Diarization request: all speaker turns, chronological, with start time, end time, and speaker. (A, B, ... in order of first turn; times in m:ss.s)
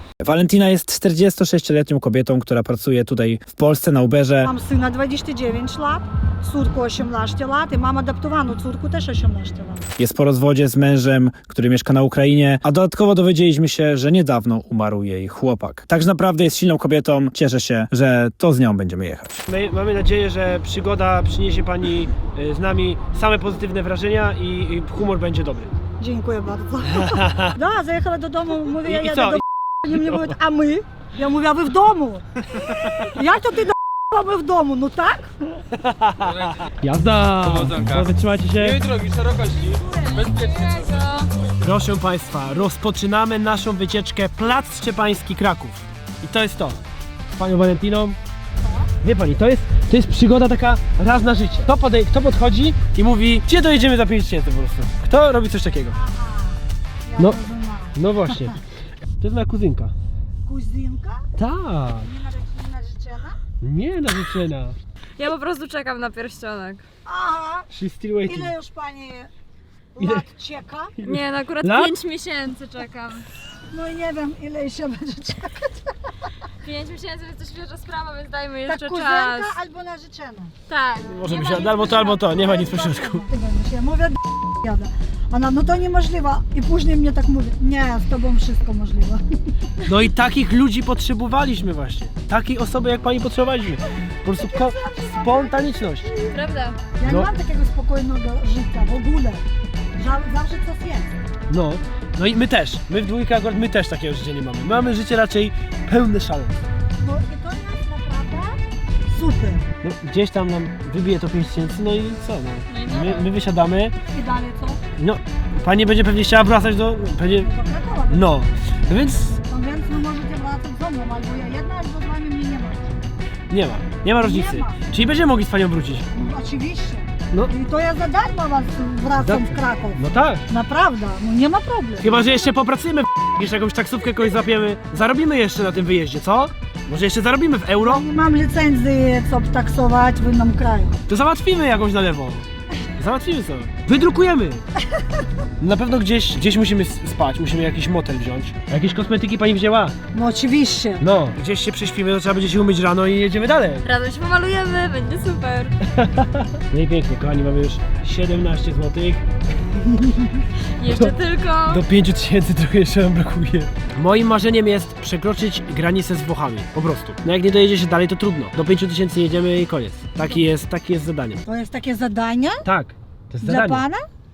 0:00.2-0:04.5 A
0:04.4-0:09.8 B
0:10.0-0:19.4 A
0:19.5-0:25.7 C
0:26.0-0:32.2 B
0:26.9-0:27.6 C
0:28.8-0:30.3 C
0:33.0-0:35.4 B
0:35.8-0:38.8 C
0:37.4-0:41.0 D
0:39.7-0:41.3 E
0:41.6-0:46.8 C
0:47.3-0:48.2 C
0:48.6-0:48.9 B
0:49.0-0:56.0 C
0:56.0-0:58.5 B
0:58.0-0:58.6 C
0:59.2-0:59.9 C
1:00.5-1:01.2 B
1:01.4-1:02.1 C
1:02.1-1:03.4 B
1:03.6-1:04.8 C
1:05.2-1:06.8 E
1:07.1-1:07.7 B
1:07.7-1:08.6 C
1:08.3-1:09.3 B
1:10.0-1:10.9 B
1:10.0-1:10.2 C
1:11.0-1:11.9 C
1:11.0-1:13.3 E
1:13.7-1:15.9 B
1:16.6-1:19.6 E
1:18.7-1:20.5 B
1:20.7-1:22.3 E
1:21.1-1:23.3 C
1:22.2-1:29.2 B
1:29.8-1:36.1 C
1:34.5-1:36.3 B
1:36.3-1:36.8 E
1:37.0-1:39.4 B
1:37.0-1:37.3 C
1:40.0-1:41.1 B
1:41.5-1:46.6 C
1:47.0-1:49.6 B
1:49.8-1:54.0 C
1:52.7-1:53.3 E
1:54.1-1:54.8 B
1:55.0-1:57.5 C
1:57.4-1:58.3 B
1:58.1-1:59.4 C
1:59.5-2:02.9 B
2:03.5-2:06.1 C
2:04.2-2:04.8 B
2:06.1-2:12.3 B
2:09.2-2:10.4 C
2:12.0-2:18.0 C
2:17.8-2:21.0 B
2:21.1-2:24.6 C
2:25.6-2:30.0 C
2:30.1-2:31.0 B
2:31.0-2:33.9 C
2:33.8-2:35.8 E
2:35.9-2:39.2 C
2:40.8-2:41.8 E
2:40.9-2:41.2 C
2:41.7-2:51.4 C
2:51.5-2:52.6 B
2:52.6-2:53.9 C
2:53.4-2:54.0 B